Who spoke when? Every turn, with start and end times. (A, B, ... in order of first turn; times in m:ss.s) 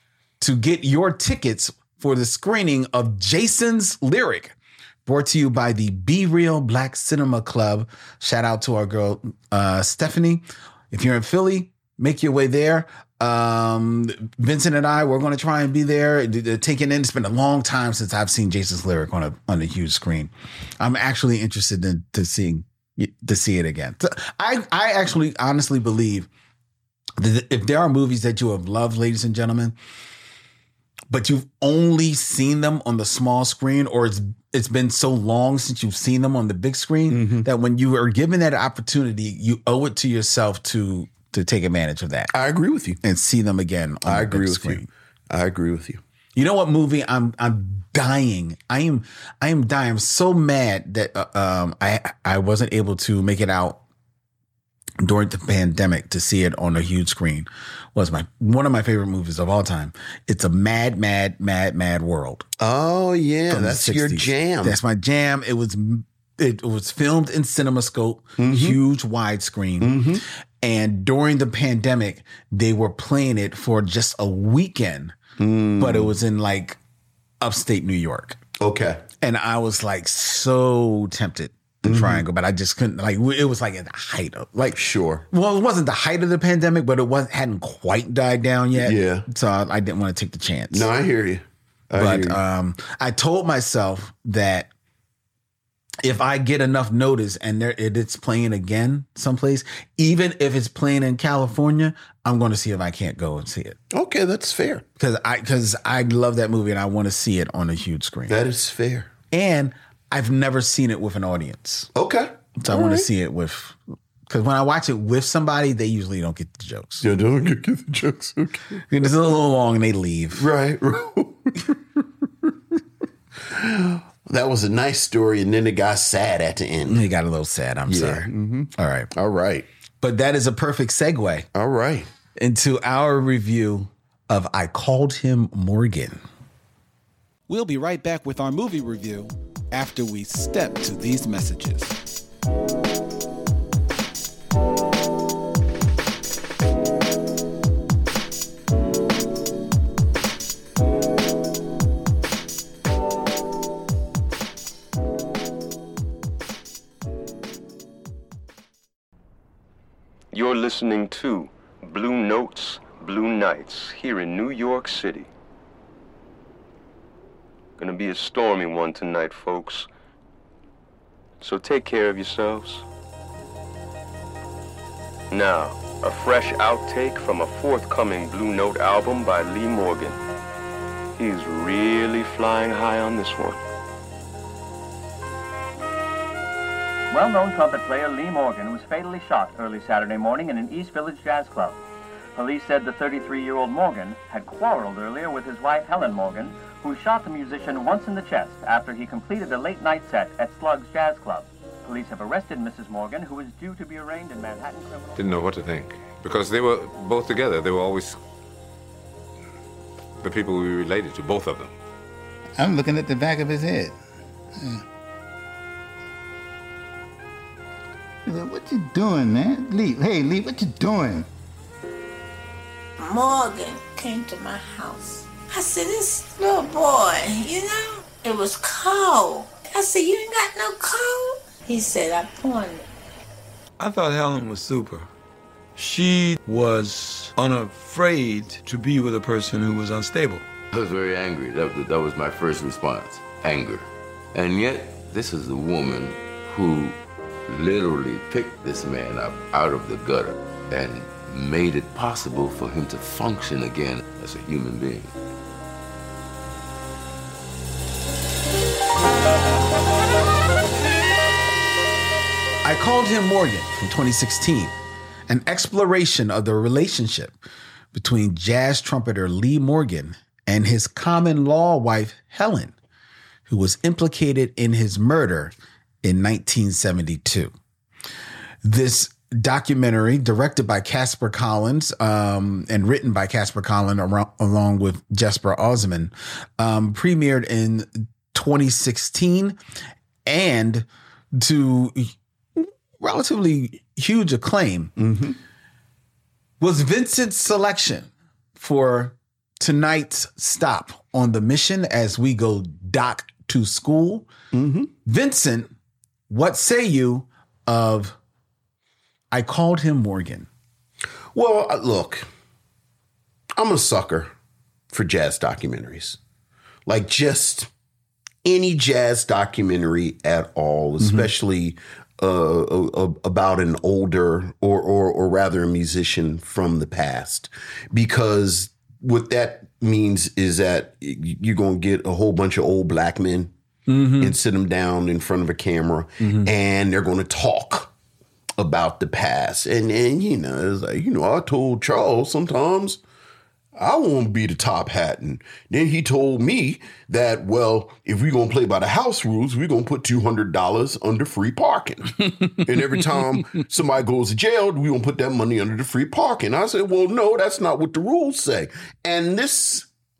0:00.4-0:26.3 A
0:27.2-0:29.7 A
0:31.1-0:42.3 A
0:37.1-0:37.5 B
0:42.3-0:43.0 B
0:43.0-0:44.9 A
0:44.0-0:46.0 B
0:46.4-0:53.8 A
0:55.0-1:02.5 A
1:02.6-1:04.8 B
1:03.5-1:10.0 A
1:08.4-1:08.8 B
1:09.8-1:10.2 B
1:10.6-1:15.2 A
1:15.4-1:16.1 B
1:15.8-1:16.8 A
1:17.4-1:18.4 A
1:18.6-1:19.0 B
1:19.2-1:24.8 A
1:21.8-1:22.2 B
1:24.7-1:25.2 B
1:25.3-1:30.9 A
1:28.8-1:29.2 B
1:30.7-1:32.4 B
1:32.0-1:34.7 A
1:36.0-1:43.8 A
1:43.9-1:44.8 B
1:45.0-1:48.4 A
1:48.3-1:49.1 B
1:49.3-1:51.9 A
1:51.9-1:53.1 B
1:52.6-1:57.0 A
1:57.0-1:58.8 B
1:58.9-2:00.5 A
2:00.4-2:01.5 B
2:03.4-2:07.0 B
2:06.9-2:09.1 A
2:07.9-2:09.7 B
2:10.0-2:11.4 A
2:11.5-2:12.1 B
2:12.4-2:16.2 A
2:17.5-2:22.0 A
2:40.3-2:45.3 C
2:47.8-2:49.9 C
2:51.4-2:52.8 C
2:55.3-3:00.2 C
3:01.2-3:03.6 C
3:07.1-3:11.8 D
3:12.3-3:25.2 D
3:25.2-3:28.2 E
3:30.2-3:31.7 E
3:32.6-3:33.9 F
3:38.3-3:41.2 F
3:43.0-3:52.9 G
3:53.8-3:55.1 H
3:55.8-4:00.4 H
4:00.7-4:15.1 I
4:22.6-4:24.7 A
4:25.3-4:27.3 A
4:27.9-4:32.7 A
4:33.5-4:37.5 A
4:38.6-4:49.6 A
4:50.2-4:54.9 A
4:55.0-4:55.4 B
4:56.6-5:04.3 A
5:04.5-5:04.9 B
5:05.0-5:05.7 A
5:06.3-5:08.2 A
5:09.3-5:10.5 A
5:11.3-5:12.3 B
5:13.6-5:14.3 B
5:14.9-5:16.2 B
5:16.8-5:17.7 B
5:18.4-5:33.5 B
5:21.0-5:21.3 A
5:33.9-5:34.4 A
5:34.2-5:37.9 B
5:36.2-5:36.5 A
5:38.6-5:43.0 B
5:43.8-5:59.9 B
5:52.4-5:52.7 A